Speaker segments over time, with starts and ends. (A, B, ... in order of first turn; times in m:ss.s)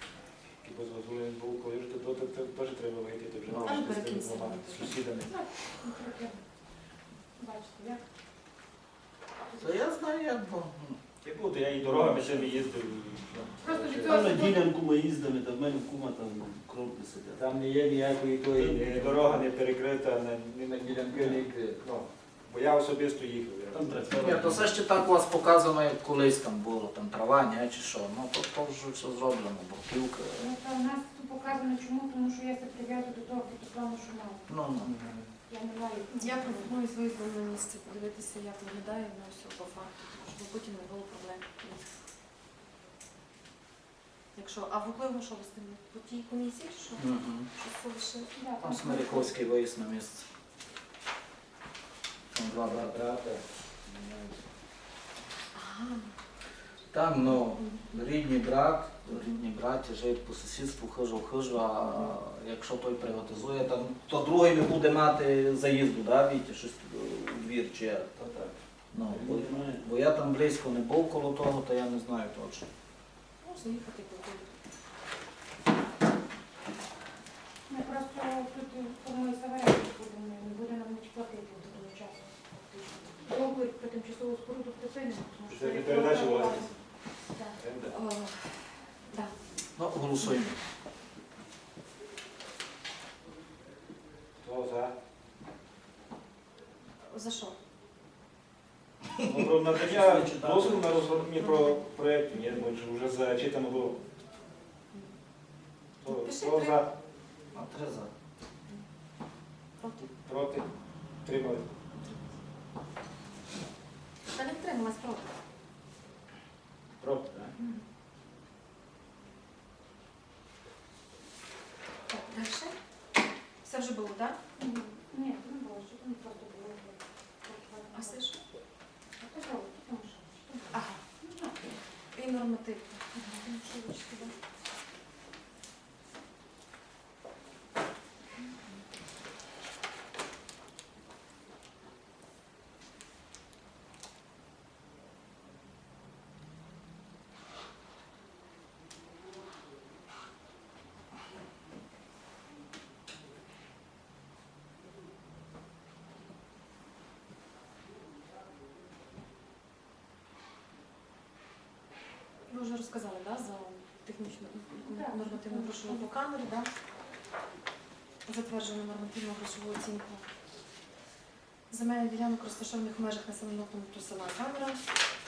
0:00.6-0:05.3 A
0:03.6-0:04.9 B
0:05.2-0:06.4 C
0:07.4-0:08.0 C
0:09.5-0:11.0 D
0:11.2-0:14.2 A
0:13.6-0:14.7 C
0:14.0-0:17.4 E
0:17.4-0:24.4 A
0:18.6-0:19.4 E
0:20.9-0:21.8 D
0:23.7-0:24.7 E
0:24.2-0:30.5 D
0:30.4-0:34.5 C
0:34.5-0:34.9 D
0:34.8-0:35.3 A
0:35.5-0:36.7 C
0:36.1-0:41.8 B
0:44.3-0:48.3 B
0:47.0-0:47.5 D
0:48.3-0:49.3 C
0:48.6-0:50.3 D
0:52.3-0:53.0 D
0:52.6-0:54.4 A
0:55.5-0:56.1 B
0:56.9-1:08.1 D
0:57.6-0:57.9 B
1:08.2-1:09.8 E
1:08.9-1:12.7 D
1:13.4-1:14.5 B
1:17.7-1:27.6 C
1:25.5-1:26.7 A
1:27.6-1:27.9 A
1:27.9-1:29.3 B
1:29.8-1:30.6 D
1:34.4-1:34.9 A
1:37.0-1:37.6 B
1:39.2-1:44.0 A
1:39.8-1:41.3 E
1:41.5-1:41.7 B
1:46.0-1:46.9 A
1:46.1-1:46.8 B
1:47.5-1:48.1 D
1:49.8-1:50.1 B
1:50.2-1:50.7 A
1:51.2-1:51.7 A
1:52.0-1:52.2 B
1:54.3-1:55.3 B
1:57.0-1:57.5 A
2:02.1-2:02.8 B
2:03.6-2:04.4 B
2:04.6-2:08.2 C
2:07.9-2:08.4 B
2:09.2-2:11.7 C
2:10.7-2:11.0 B
2:12.1-2:14.3 B
2:13.1-2:13.4 C
2:42.5-2:46.7 B
2:44.8-2:46.1 C
2:48.2-2:50.2 B
2:51.7-2:54.8 B